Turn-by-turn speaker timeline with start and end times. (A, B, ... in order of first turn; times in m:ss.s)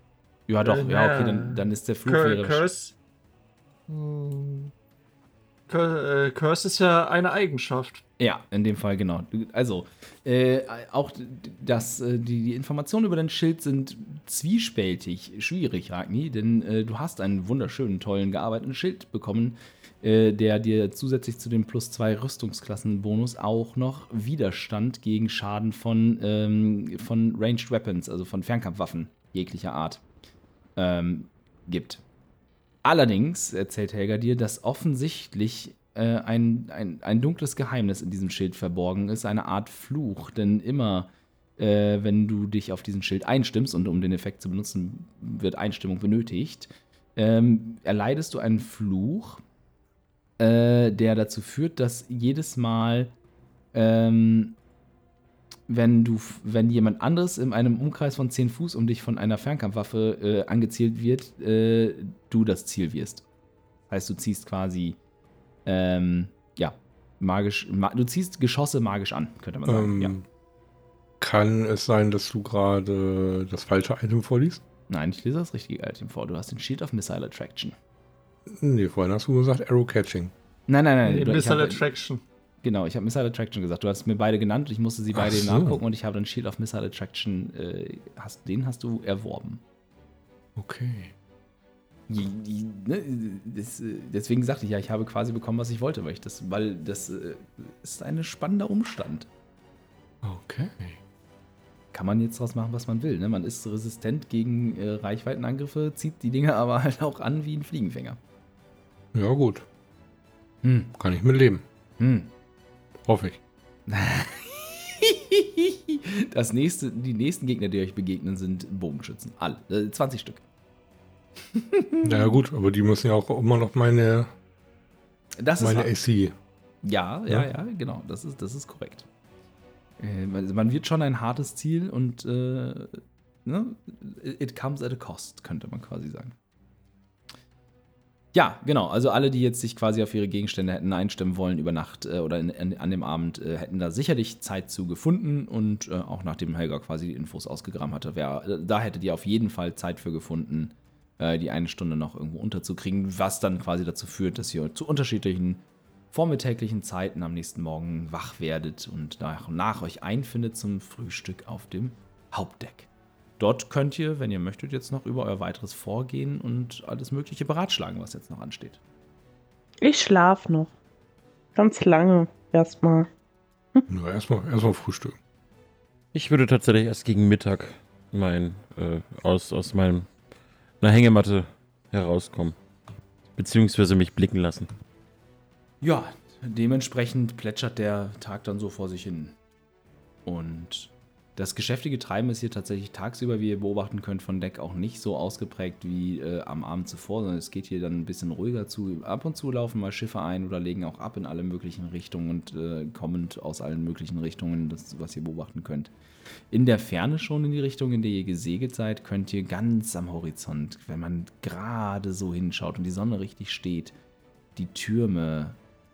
0:00.5-0:02.7 A
0:00.6-0:03.0 B
0:03.9-0:04.7 B
0:05.7-0:08.0 B
0:08.2-0:30.0 A
0:30.8-0:32.0 A
0:32.8-0:49.4 A
0:50.4-0:53.1 A
0:53.7-0:54.6 A
0:55.7-1:03.2 A
1:03.9-1:05.0 A
1:05.6-1:10.2 A
1:09.7-1:10.2 C
1:11.2-1:14.6 C
1:14.9-1:17.8 A
1:18.5-1:20.3 C
1:20.7-1:21.8 A
1:21.0-1:22.2 B
1:22.6-1:29.6 A
1:25.1-1:25.8 C
1:30.6-1:31.1 C
1:32.1-1:39.3 A
1:40.2-1:41.0 C
1:41.9-1:48.2 A
1:49.1-1:49.7 C
1:50.6-1:50.9 A
1:50.9-1:51.6 C
1:52.0-1:52.3 A
1:53.1-1:53.4 C
1:53.9-2:00.4 A
2:01.5-2:02.2 A
2:02.0-2:04.3 C
2:05.4-2:05.9 A
2:05.6-2:06.4 C
2:06.8-2:09.1 A
2:10.0-2:16.4 A
2:18.3-2:42.9 A
2:43.4-2:48.8 A
2:49.8-2:50.7 D
2:51.6-2:53.1 D
2:53.9-2:55.2 C
2:56.1-3:00.1 E
3:00.8-3:02.6 E
3:03.4-3:04.7 E
3:05.8-3:09.4 A
3:10.3-3:25.9 A
3:26.5-3:33.9 A
3:34.6-3:35.6 A